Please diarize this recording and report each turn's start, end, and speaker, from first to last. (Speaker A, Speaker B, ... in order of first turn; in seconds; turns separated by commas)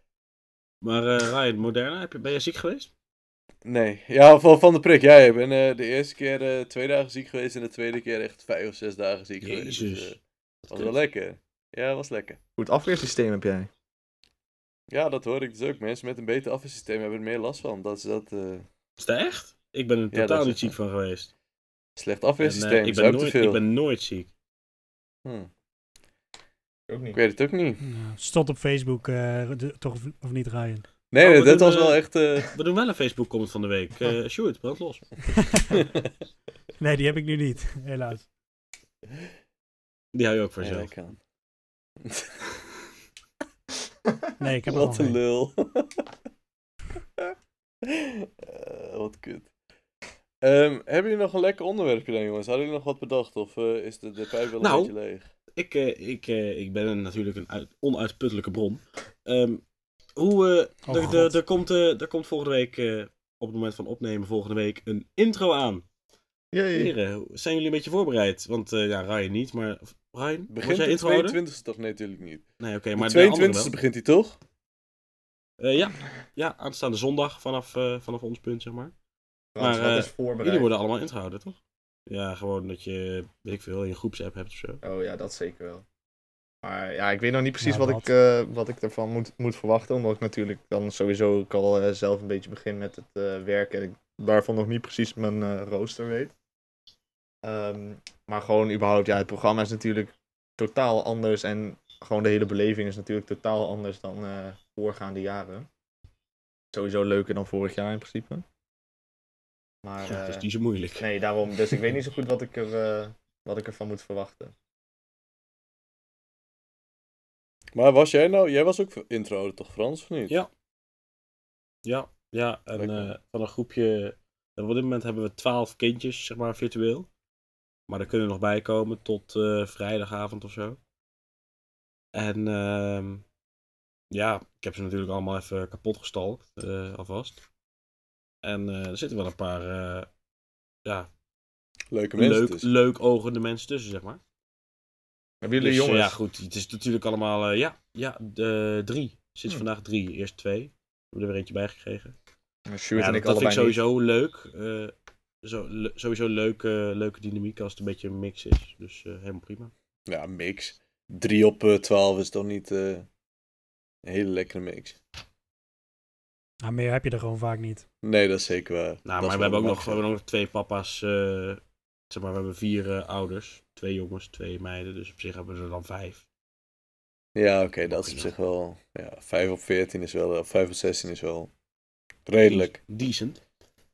Speaker A: 0.8-2.9, Speaker B: 3.6-10.2, Speaker A: 9.4-10.9, Speaker B: 10.7-12.4, Speaker C: 12.6-13.7, Speaker B: 14.9-18.7, Speaker A: 19.0-21.3, Speaker B: 20.1-20.7, Speaker B: 22.0-23.6, Speaker A: 22.4-24.3, Speaker B: 25.2-25.5, Speaker C: 26.9-27.2, Speaker B: 27.1-27.8, Speaker D: 27.8-30.9, Speaker B: 31.1-32.5, Speaker A: 31.2-35.1, Speaker D: 35.4-35.8, Speaker B: 35.7-36.1, Speaker D: 36.8-38.3, Speaker A: 40.1-40.9, Speaker B: 40.6-41.2, Speaker B: 42.0-42.4, Speaker C: 44.1-44.3, Speaker D: 44.4-45.2, Speaker B: 44.7-46.0, Speaker B: 47.9-49.5, Speaker B: 50.4-55.3, Speaker A: 54.6-54.9, Speaker A: 55.5-59.6, Speaker A: 60.2-65.8, Speaker D: 60.9-61.4, Speaker C: 66.5-66.9, Speaker A: 66.7-71.4, Speaker B: 70.5-72.5, Speaker A: 72.6-73.8, Speaker B: 73.0-74.4, Speaker A: 75.6-78.9, Speaker C: 79.5-80.7, Speaker A: 79.6-84.8, Speaker C: 84.8-85.8, Speaker C: 86.6-96.3, Speaker D: 87.6-88.1, Speaker C: 97.4-105.7, Speaker C: 106.7-108.5, Speaker C: 109.8-110.5, Speaker A: 110.0-111.1, Speaker C: 111.0-114.5, Speaker B: 117.8-120.4, Speaker A: 121.8-127.1, Speaker B: 122.8-123.1, Speaker A: 127.9-130.8, Speaker A: 132.1-133.2, Speaker A: 134.1-137.4, Speaker A: 138.4-140.1, Speaker B: 141.9-142.7, Speaker A: 142.2-144.2, Speaker C: 145.4-146.2, Speaker A: 145.6-152.1, Speaker C: 152.7-153.8, Speaker A: 153.0-159.7, Speaker B: 160.1-163.1, Speaker B: 164.0-165.0, Speaker D: 166.6-167.8, Speaker B: 168.0-170.0, Speaker A: 169.1-176.2, Speaker B: 177.3-181.5, Speaker A: 177.9-178.3, Speaker B: 182.3-182.8, Speaker A: 182.4-183.4